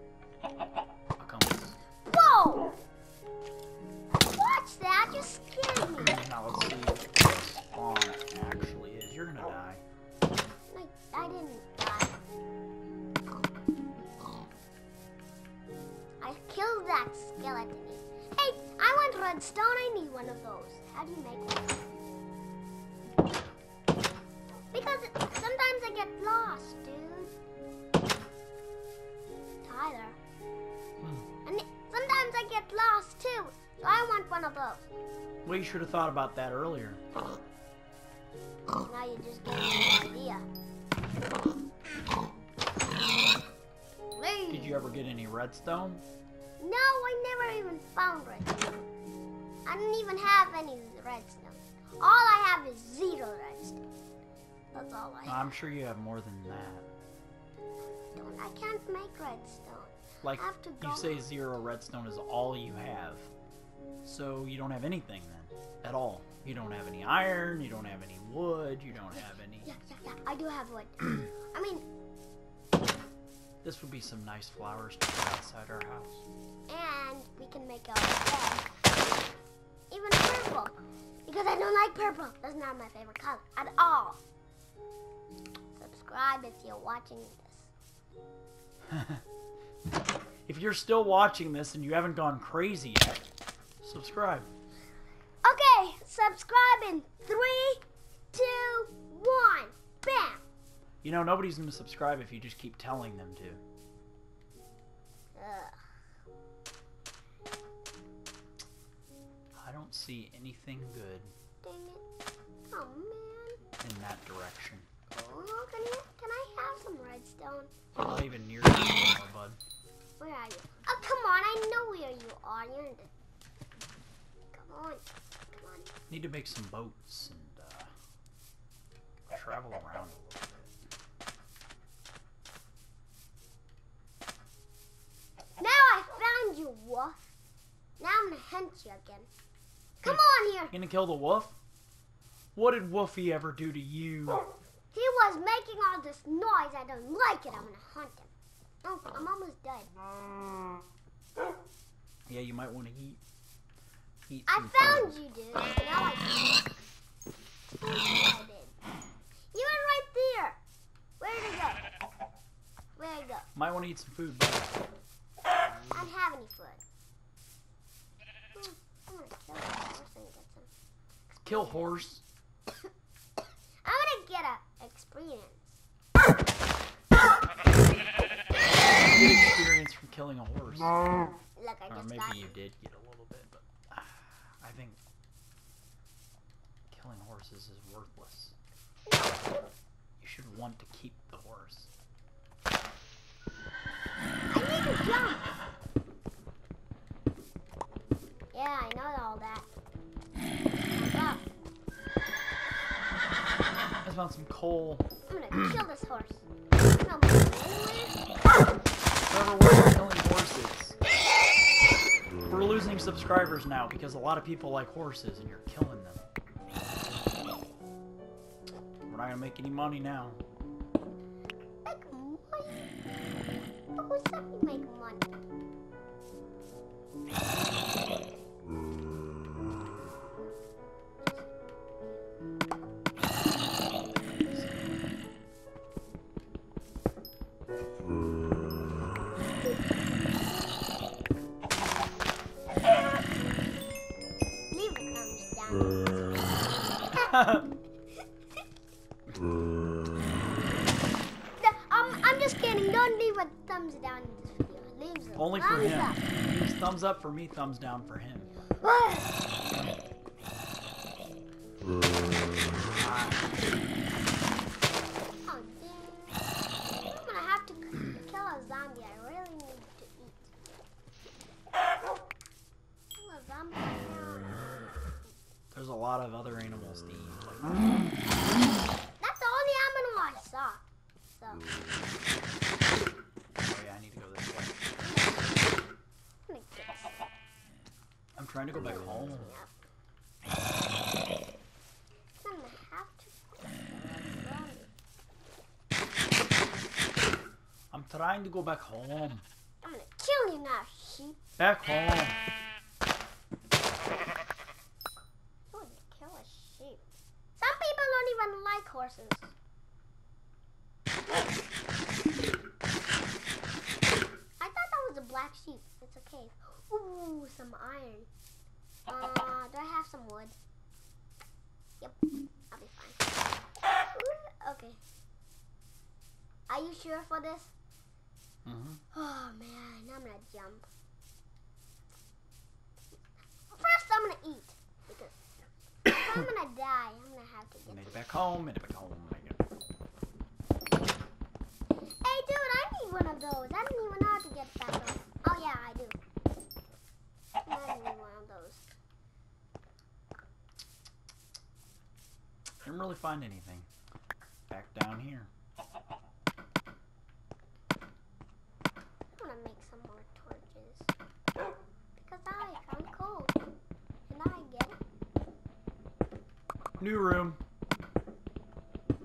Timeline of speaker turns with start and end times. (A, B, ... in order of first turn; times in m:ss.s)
0:01.2-0:01.8 A
0:02.0-0:02.7 B
0:04.2-0:06.2 B
0:06.0-0:09.8 A
0:10.7-0:12.2 B
0:16.2-0:21.9 B
0:24.7-0:27.3 B
0:29.6-0:30.2 B
0:31.0-0:31.3 A
0:31.4-0:34.9 B
0:35.4-0:37.0 A
0:38.8-0:40.4 B
0:44.1-0:44.8 B
0:44.5-0:46.0 A
0:46.6-0:48.8 B
0:49.6-0:53.8 B
0:54.7-0:55.5 B
0:55.2-0:56.9 A
0:58.1-1:01.2 B
1:00.2-1:03.3 A
1:04.0-1:09.7 A
1:09.1-1:11.9 B
1:13.6-1:16.2 A
1:16.7-1:18.7 B
1:19.9-1:24.2 B
1:25.8-1:27.7 B
1:28.9-1:29.2 A
1:30.5-1:33.2 A
1:33.8-1:34.5 A
1:35.4-1:40.4 B
1:41.0-1:43.6 A
1:45.3-1:45.9 B
1:49.5-1:51.3 A
1:51.6-1:52.0 B
1:52.7-1:53.6 B
1:53.8-1:54.9 A
1:55.1-1:57.7 B
1:58.0-1:59.6 A
2:00.2-2:03.1 B
2:04.5-2:05.9 B
2:06.1-2:07.9 A
2:09.3-2:10.7 A
2:15.6-2:17.2 B
2:18.0-2:19.3 B
2:20.0-2:20.7 B
2:20.0-2:21.6 A
2:22.5-2:24.4 A
2:24.9-2:28.3 B
2:28.8-2:29.9 B
2:32.3-2:33.2 A
2:34.3-2:35.1 A
2:34.5-2:36.7 B
2:37.8-2:38.8 B
2:39.5-2:40.6 B
2:41.2-2:41.9 B
2:43.0-2:43.5 B
2:43.5-2:44.7 A
2:45.9-2:46.8 B
2:48.5-2:50.7 B
2:51.4-2:52.2 A
2:51.5-2:51.9 B
2:53.8-2:55.8 B
2:59.0-3:01.3 A
3:01.6-3:02.6 B
3:01.9-3:05.0 A
3:06.9-3:08.6 A
3:09.0-3:09.7 B
3:10.2-3:11.9 A
3:14.5-3:15.5 B
3:18.5-3:19.7 B
3:20.7-3:21.5 B
3:24.0-3:25.1 A
3:25.2-3:28.2 B
3:29.2-3:31.0 A
3:32.5-3:36.2 A
3:39.1-3:40.4 A
3:41.8-3:43.0 B
3:43.9-3:45.3 B
3:51.2-3:52.3 B
3:54.3-3:54.9 A
4:04.7-4:07.3 B
4:07.2-4:07.7 A
4:11.6-4:16.2 B
4:15.4-4:18.5 A
4:18.8-4:19.4 B
4:22.7-4:23.5 A
4:25.4-4:26.4 B
4:27.0-4:30.5 B
4:33.1-4:35.4 B
4:35.7-4:38.1 A
4:39.2-4:40.8 B
4:41.3-4:41.7 B
4:43.6-4:44.9 A
4:45.0-4:45.7 B
4:46.5-4:47.3 B
4:48.4-4:49.5 A
4:48.8-4:49.8 B
4:52.4-4:54.9 B
4:57.9-4:59.4 A
4:59.8-5:01.4 B
5:01.6-5:02.4 A
5:05.7-5:07.0 B
5:07.6-5:09.5 B
5:14.6-5:18.3 B
5:19.0-5:20.6 B
5:22.7-5:23.2 B
5:23.9-5:25.0 B
5:26.7-5:27.7 B
5:28.6-5:29.0 A
5:29.1-5:30.9 B
5:33.7-5:35.3 B
5:36.0-5:38.2 B
5:37.9-5:39.6 A
5:42.2-5:46.2 B
5:47.6-5:48.9 B
5:52.8-5:53.9 A
5:54.7-5:55.5 A
5:59.4-6:01.1 B
6:02.2-6:03.5 B
6:04.3-6:05.0 B
6:07.0-6:07.6 A